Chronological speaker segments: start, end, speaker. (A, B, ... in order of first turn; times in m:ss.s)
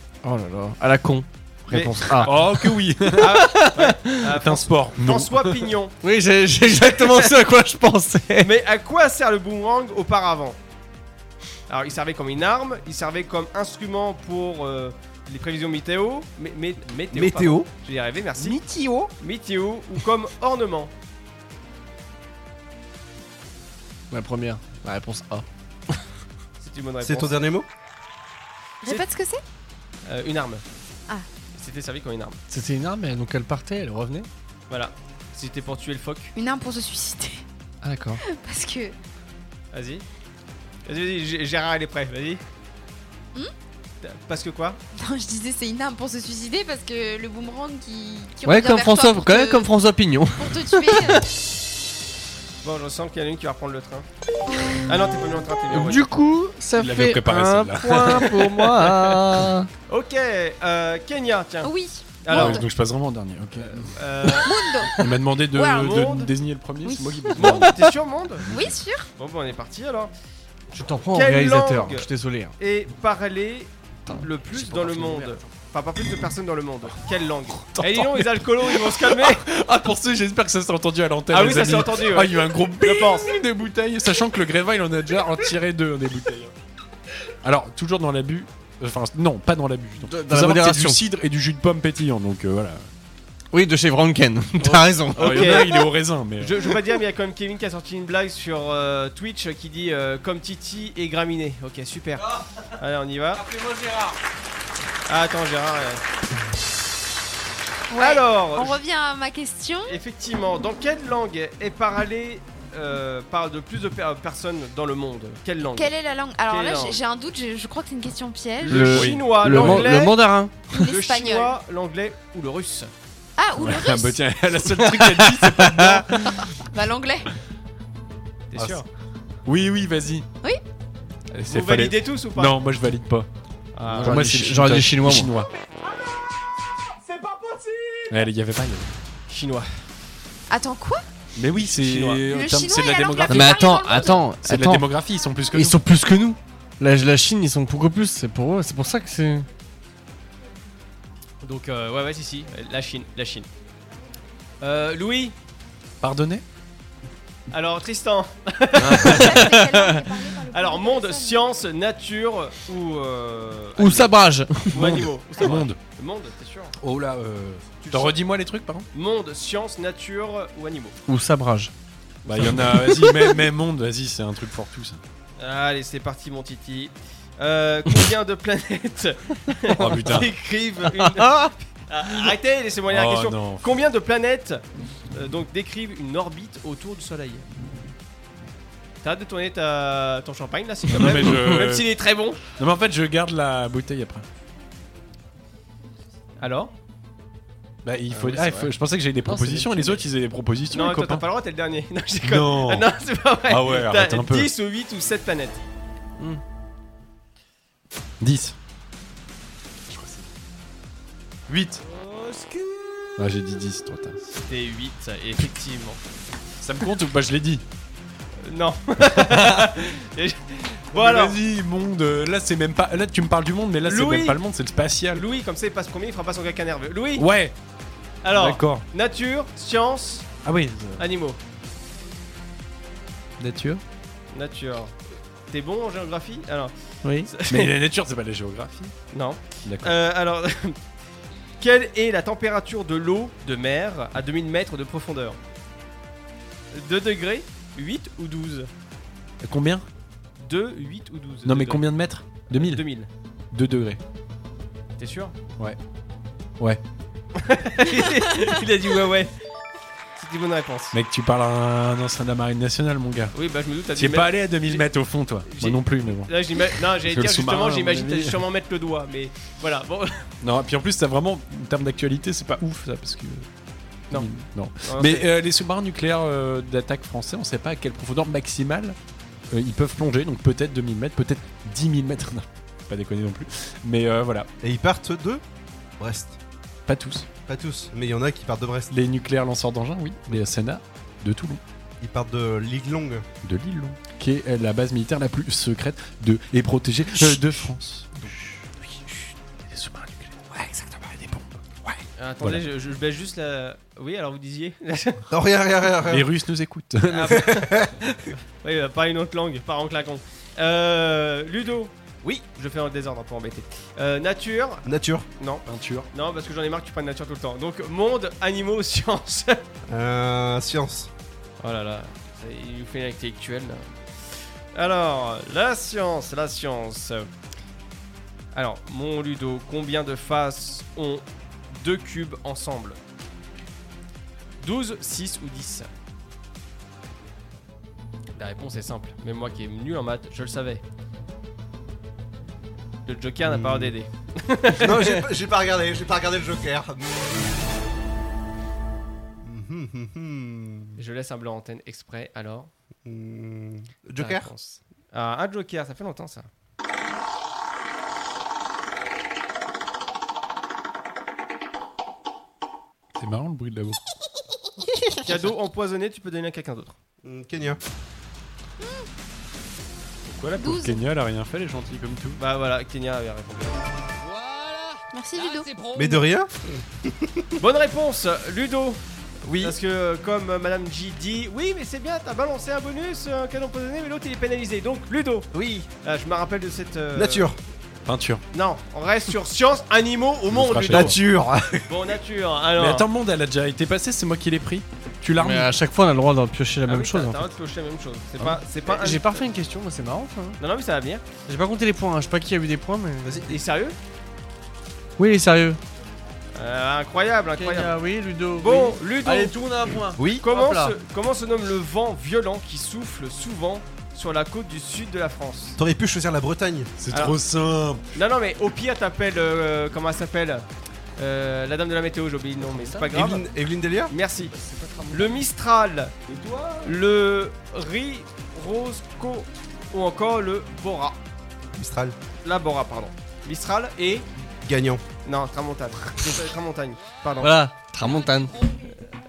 0:00.2-0:02.5 A
0:01.7-0:02.4 B
0:01.8-0:03.5 C
0:03.1-0:04.1 A
0:03.2-0:05.9 B
0:04.2-0:05.6 C
0:06.0-0:08.5 A
0:06.8-0:07.3 B
0:08.4-0:10.6 B
0:11.7-0:18.6 B
0:17.1-0:17.7 D
0:19.2-0:20.9 B
0:24.1-0:26.0 A
0:26.6-0:27.4 B
0:27.0-0:27.7 D
0:28.8-0:29.4 E
0:30.0-0:30.6 B
0:31.6-0:32.4 B
0:32.5-0:34.3 A
0:34.7-0:36.3 B
0:36.4-0:37.4 E
0:37.8-0:38.2 A
0:38.2-0:38.9 E
0:39.7-0:40.0 B
0:40.8-0:42.4 B
0:44.0-0:44.8 B
0:45.0-0:49.7 E
0:48.4-0:51.2 A
0:50.4-0:51.2 E
0:52.6-0:54.0 B
0:54.8-0:56.1 B
0:55.7-0:59.7 A
0:56.7-0:58.4 C
0:59.9-1:01.7 B
1:01.6-1:02.6 E
1:02.2-1:02.6 B
1:02.3-1:04.0 C
1:03.6-1:04.5 B
1:04.4-1:05.0 E
1:05.0-1:07.7 C
1:05.5-1:05.9 E
1:05.7-1:06.3 B
1:06.8-1:07.6 E
1:07.3-1:08.4 B
1:08.4-1:09.1 E
1:09.2-1:10.1 B
1:10.7-1:12.5 A
1:11.1-1:12.1 B
1:12.6-1:19.4 B
1:14.1-1:15.5 A
1:17.6-1:26.5 C
1:21.3-1:23.4 B
1:27.4-1:32.9 C
1:30.0-1:31.0 A
1:33.5-1:35.8 A
1:34.6-1:36.7 C
1:35.1-1:35.8 B
1:36.4-1:42.3 B
1:42.8-1:43.4 B
1:43.5-1:44.1 A
1:45.1-1:46.0 B
1:47.9-1:50.0 E
1:48.0-1:48.8 B
1:49.9-1:55.9 B
1:55.7-1:58.9 E
1:56.4-1:57.0 B
1:58.6-2:00.2 B
1:58.7-1:59.9 C
1:58.7-2:00.7 A
2:00.7-2:01.6 E
2:00.7-2:02.9 B
2:03.4-2:04.2 E
2:03.6-2:06.4 C
2:04.8-2:06.0 A
2:06.5-2:07.3 E
2:08.5-2:08.9 B
2:09.4-2:10.3 C
2:11.4-2:12.6 B
2:11.4-2:13.3 C
2:13.8-2:14.2 B
2:13.8-2:15.3 A
2:13.9-2:15.5 C
2:18.1-2:18.9 C
2:19.3-2:19.7 B
2:20.5-2:21.0 E
2:21.4-2:25.8 C
2:21.6-2:22.2 B
2:22.3-2:24.2 E
2:23.3-2:24.8 A
2:25.5-2:29.5 A
2:31.4-2:33.5 B
2:34.6-2:35.3 B
2:36.0-2:36.4 C
2:37.5-2:39.6 B
2:38.8-2:40.0 A
2:39.0-2:41.4 E
2:40.5-2:44.1 B
2:43.8-2:45.0 A
2:44.7-2:46.7 B
2:44.7-2:45.8 C
2:46.8-2:48.9 C
2:47.8-2:48.2 B
2:48.9-2:51.0 B
2:51.1-2:51.7 A
2:52.2-2:52.7 B
2:52.2-2:55.0 C
2:52.5-2:53.3 A
2:55.4-3:04.6 B
2:59.7-3:00.3 C
3:01.0-3:01.5 A
3:02.9-3:03.6 C
3:05.1-3:07.4 B
3:09.0-3:12.4 B
3:10.9-3:11.9 C
3:12.5-3:14.3 C
3:16.4-3:16.7 B
3:17.8-3:21.2 C
3:18.1-3:18.7 A
3:19.2-3:20.0 A
3:20.7-3:25.6 B
3:22.2-3:22.9 C
3:23.5-3:24.5 C
3:28.2-3:28.6 C
3:29.9-3:30.2 C
3:31.5-3:31.8 C
3:31.9-3:32.9 B
3:33.2-3:34.2 C
3:34.4-3:36.0 B
3:36.6-3:37.6 C
3:38.4-3:41.4 B
3:39.1-3:39.7 C
3:40.9-3:45.2 C
3:43.8-3:44.4 B
3:45.1-3:47.2 B
3:47.2-3:47.5 C
3:48.2-3:50.3 B
3:48.3-3:48.8 C
3:50.4-3:51.0 C
3:51.0-3:51.4 B
3:53.4-3:53.8 C
3:54.3-3:54.9 B
3:55.5-3:56.7 B
3:57.3-3:57.7 B
3:57.5-3:58.9 C
3:59.1-4:00.8 B
3:59.6-4:00.0 C
4:01.6-4:05.4 B
4:06.7-4:08.7 B
4:09.4-4:09.9 C
4:10.4-4:11.9 B
4:11.4-4:12.8 C
4:12.5-4:13.1 B
4:13.5-4:14.0 C
4:15.0-4:15.3 B
4:17.4-4:19.3 B
4:20.2-4:20.9 B
4:20.9-4:23.3 C
4:23.3-4:24.9 B
4:23.9-4:28.4 C
4:25.4-4:30.2 B
4:30.4-4:33.5 C
4:34.1-4:39.0 C
4:34.8-4:35.3 B
4:39.5-4:44.5 C
4:44.6-4:45.4 D
4:46.0-4:46.4 D
4:46.9-4:47.3 C
4:47.5-4:48.9 D
4:48.9-4:51.6 C
4:52.0-4:53.2 D
4:53.4-5:02.6 C
5:02.2-5:05.2 B
5:05.3-5:06.3 D
5:06.1-5:07.5 C
5:07.1-5:14.8 B
5:07.3-5:07.9 D
5:14.8-5:15.2 D
5:15.4-5:19.6 B
5:15.6-5:16.1 C
5:19.9-5:21.1 D
5:21.6-5:23.8 B
5:24.7-5:27.3 B
5:28.5-5:33.0 B
5:34.6-5:35.9 B
5:38.3-5:40.8 B
5:43.0-5:45.2 B
5:43.4-5:43.9 D
5:44.8-5:47.6 D
5:49.4-5:51.0 D
5:51.0-5:52.7 B
5:53.0-5:54.5 D
5:54.2-5:56.5 B
6:03.2-6:04.0 C
6:05.2-6:06.9 B
6:07.2-6:07.8 D
6:10.2-6:12.4 C
6:10.6-6:11.0 E
6:12.4-6:13.8 B
6:15.1-6:15.8 E
6:15.9-6:17.4 D
6:17.6-6:19.0 B
6:19.4-6:19.8 D
6:19.6-6:25.5 B
6:25.5-6:25.9 D
6:26.0-6:27.5 B
6:27.1-6:27.6 D
6:28.0-6:28.4 C
6:28.5-6:31.2 B
6:30.5-6:31.2 C
6:30.9-6:31.8 D
6:31.8-6:33.1 B
6:32.8-6:35.7 C
6:35.4-6:37.5 A
6:36.8-6:39.5 B
6:39.0-6:40.6 A
6:40.6-6:41.2 B
6:41.5-6:43.5 A
6:43.5-6:44.0 B
6:45.2-6:45.8 A
6:46.6-6:47.9 B
6:47.6-6:50.9 A
6:48.6-6:49.5 B
6:50.2-6:50.4 D
6:50.4-6:55.8 B
6:55.8-6:56.9 D
6:57.0-6:58.1 C
6:57.1-6:57.4 B
6:58.1-7:00.6 B
7:01.2-7:03.4 B
7:02.6-7:03.1 A
7:03.1-7:04.1 D
7:04.1-7:04.5 B
7:04.5-7:05.4 A
7:05.1-7:06.1 B
7:06.3-7:06.6 A
7:06.8-7:11.2 B
7:11.7-7:12.1 D
7:12.4-7:14.3 B
7:14.6-7:15.0 D
7:15.2-7:17.5 B
7:17.4-7:18.6 A